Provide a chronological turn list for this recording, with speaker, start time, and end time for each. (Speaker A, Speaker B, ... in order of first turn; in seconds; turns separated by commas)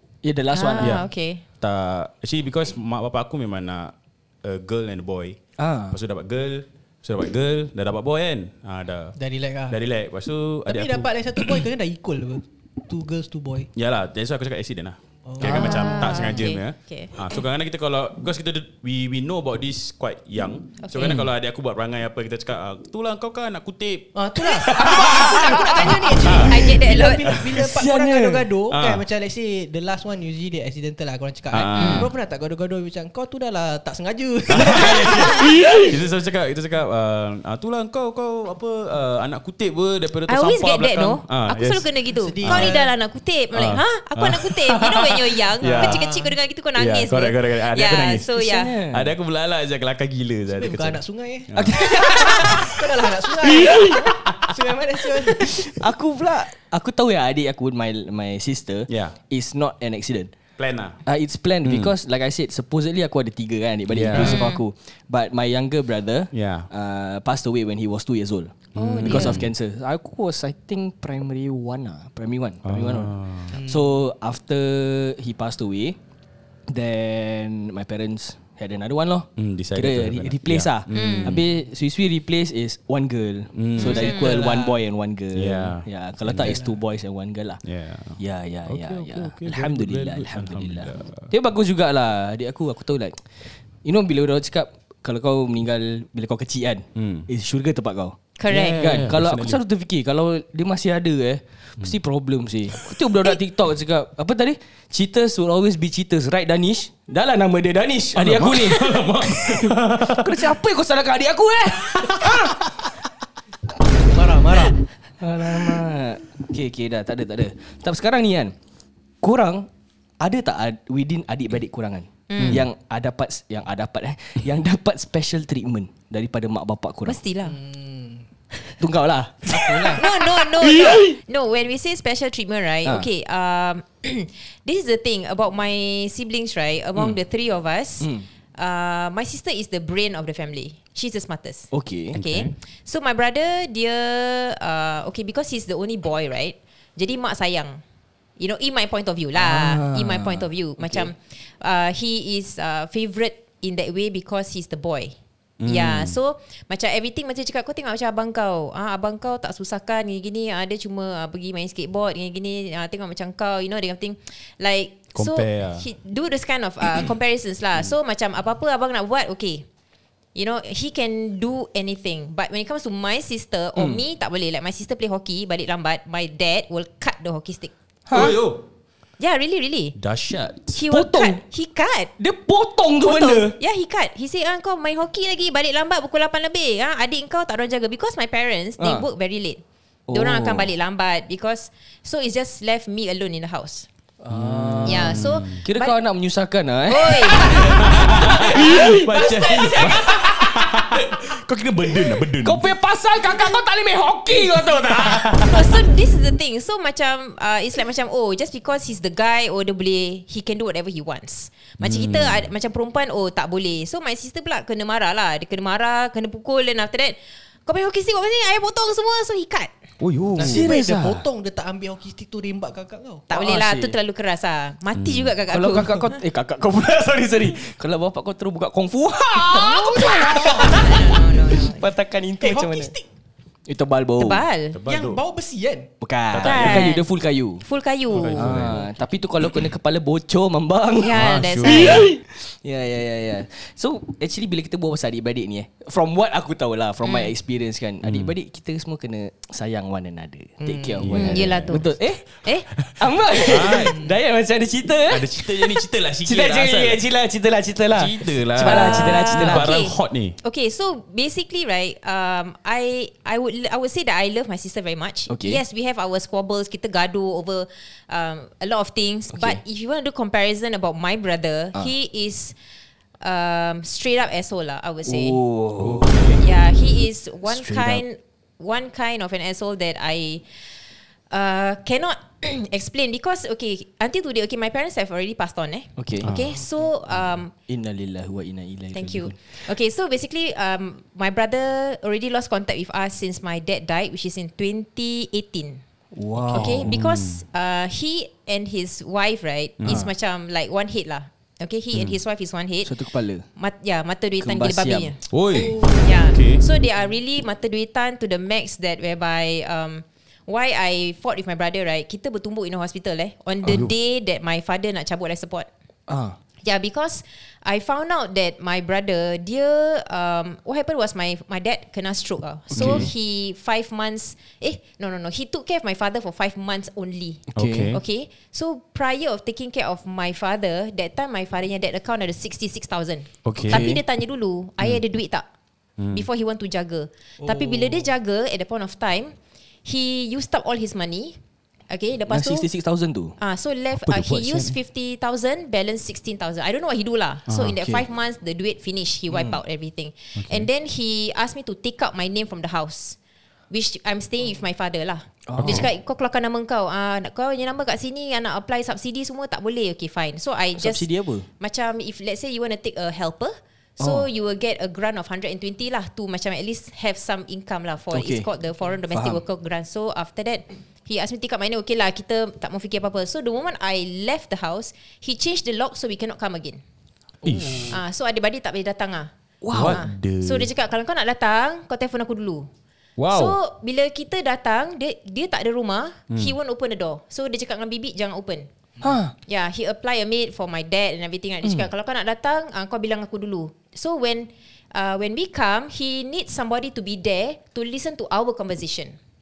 Speaker A: 0.2-1.0, Speaker B: 0.5-1.4, Speaker C: 0.8-1.1, Speaker C: 1.6-5.4, Speaker A: 5.6-6.0, Speaker C: 5.9-9.2, Speaker D: 9.2-9.8, Speaker C: 9.7-11.7, Speaker D: 10.7-13.7, Speaker C: 13.8-26.5, Speaker D: 15.3-15.8, Speaker B: 15.4-17.1, Speaker B: 20.8-21.2, Speaker A: 21.0-21.3, Speaker D: 24.1-35.8, Speaker A: 25.0-26.0, Speaker B: 26.3-27.3, Speaker A: 27.6-28.5, Speaker C: 28.7-29.1, Speaker C: 31.5-32.1, Speaker B: 31.8-32.1, Speaker C: 34.5-41.9, Speaker B: 40.3-48.8, Speaker D: 42.2-42.9, Speaker C: 42.4-42.8, Speaker C: 43.5-46.1, Speaker D: 45.7-46.3, Speaker C: 46.8-52.6, Speaker A: 48.4-49.1, Speaker D: 50.5-55.8, Speaker A: 51.5-52.7, Speaker A: 55.3-60.3, Speaker C: 58.9-59.2, Speaker C: 60.6-61.0, Speaker A: 61.1-76.0, Speaker C: 61.6-61.9, Speaker C: 63.9-64.4, Speaker B: 64.2-64.6, Speaker C: 66.3-66.7, Speaker C: 68.8-69.5, Speaker B: 69.0-69.4, Speaker C: 72.6-73.6, Speaker D: 73.5-74.0, Speaker A: 76.7-87.6, Speaker C: 79.4-81.4, Speaker B: 80.9-81.4, Speaker C: 83.5-84.0, Speaker B: 83.8-84.4, Speaker D: 83.8-84.8, Speaker C: 85.3-86.6, Speaker D: 86.4-86.8, Speaker C: 87.6-91.3, Speaker A: 88.2-112.6, Speaker C: 97.0-97.3, Speaker B: 98.4-99.1, Speaker C: 98.5-99.6, Speaker C: 108.2-110.5, Speaker C: 111.8-112.9, Speaker D: 114.1-114.8, Speaker A: 115.2-118.5, Speaker A: 119.2-119.7, Speaker A: 120.2-127.2, Speaker B: 122.3-122.6, Speaker B: 127.1-127.6, Speaker D: 127.4-128.3, Speaker A: 128.8-130.0, Speaker D: 129.5-130.0, Speaker B: 129.9-147.8, Speaker A: 138.0-138.3, Speaker A: 141.7-142.2, Speaker C: 142.1-142.5, Speaker B: 148.4-155.2, Speaker A: 149.4-151.1, Speaker C: 155.6-156.2, Speaker B: 155.7-169.7, Speaker C: 165.1-165.9, Speaker B: 170.3-178.3, Speaker A: 173.8-174.0, Speaker A: 178.1-178.4, Speaker C: 178.1-178.7, Speaker B: 179.2-180.0, Speaker C: 180.0-180.8, Speaker B: 180.7-182.1, Speaker A: 180.9-181.4, Speaker A: 182.2-183.6, Speaker B: 183.0-193.9, Speaker A: 188.8-189.1, Speaker A: 190.1-190.7, Speaker A: 194.2-200.1, Speaker C: 194.3-195.6, Speaker B: 194.8-196.0, Speaker B: 196.9-197.7, Speaker C: 197.4-202.7, Speaker D: 199.5-199.8, Speaker A: 202.4-205.3, Speaker C: 204.6-205.8, Speaker B: 205.4-219.7, Speaker C: 211.8-212.5, Speaker C: 220.0-220.7, Speaker D: 220.4-223.3, Speaker A: 220.4-221.3, Speaker B: 223.3-226.2, Speaker A: 223.3-224.0, Speaker C: 224.9-225.3, Speaker A: 225.5-232.9, Speaker D: 229.5-231.0, Speaker B: 229.5-231.9, Speaker D: 232.4-233.1, Speaker A: 233.7-234.4, Speaker B: 234.2-234.8, Speaker C: 234.7-235.2, Speaker D: 234.9-235.9, Speaker A: 236.0-237.6, Speaker C: 236.3-236.9, Speaker B: 236.4-237.1, Speaker B: 237.6-238.5, Speaker C: 238.1-238.9, Speaker A: 238.4-259.8, Speaker B: 241.0-242.1, Speaker C: 241.1-242.1, Speaker B: 247.0-247.3, Speaker C: 248.0-248.3, Speaker D: 250.6-251.1, Speaker C: 251.0-251.8, Speaker B: 251.1-252.7, Speaker C: 252.8-254.0, Speaker D: 253.6-254.2, Speaker C: 255.1-257.0, Speaker C: 257.9-260.4, Speaker B: 258.6-272.6, Speaker A: 265.3-265.6, Speaker A: 269.3-269.6, Speaker B: 273.2-275.4, Speaker A: 275.1-276.2, Speaker C: 275.8-276.4, Speaker B: 276.4-280.4, Speaker A: 277.5-278.0, Speaker B: 281.3-287.5, Speaker A: 286.0-286.3, Speaker C: 286.2-286.6, Speaker A: 287.7-289.6, Speaker B: 288.9-295.8, Speaker A: 296.1-296.9, Speaker B: 296.5-302.9, Speaker C: 296.6-297.4, Speaker C: 299.8-300.1, Speaker A: 302.8-303.5, Speaker B: 303.6-305.2, Speaker A: 304.4-305.1, Speaker C: 305.3-306.6, Speaker D: 305.5-306.2, Speaker B: 306.0-315.7, Speaker C: 313.6-313.9, Speaker A: 316.1-316.4, Speaker B: 316.6-335.5, Speaker A: 322.7-323.1, Speaker C: 322.8-323.1, Speaker A: 327.5-327.9, Speaker C: 327.6-328.0, Speaker C: 333.4-333.8, Speaker A: 333.6-334.0, Speaker C: 336.0-336.3, Speaker B: 336.1-341.4, Speaker D: 337.4-338.1, Speaker B: 341.9-342.7, Speaker A: 342.3-343.4, Speaker B: 343.4-353.2, Speaker C: 344.0-344.8, Speaker C: 347.5-347.8, Speaker A: 349.3-349.6, Speaker C: 350.4-350.7, Speaker B: 353.7-361.1, Speaker A: 355.5-355.9, Speaker C: 355.6-355.9, Speaker A: 360.8-361.5, Speaker B: 361.6-376.8, Speaker A: 364.0-364.3, Speaker A: 368.1-368.5, Speaker A: 369.1-369.4, Speaker C: 377.4-378.0, Speaker D: 377.4-377.9, Speaker B: 377.9-379.3, Speaker A: 379.6-380.0, Speaker C: 379.7-380.7, Speaker B: 379.8-382.7, Speaker C: 383.2-383.6, Speaker B: 383.3-388.7, Speaker C: 386.3-386.6, Speaker A: 389.0-389.3, Speaker B: 389.4-399.2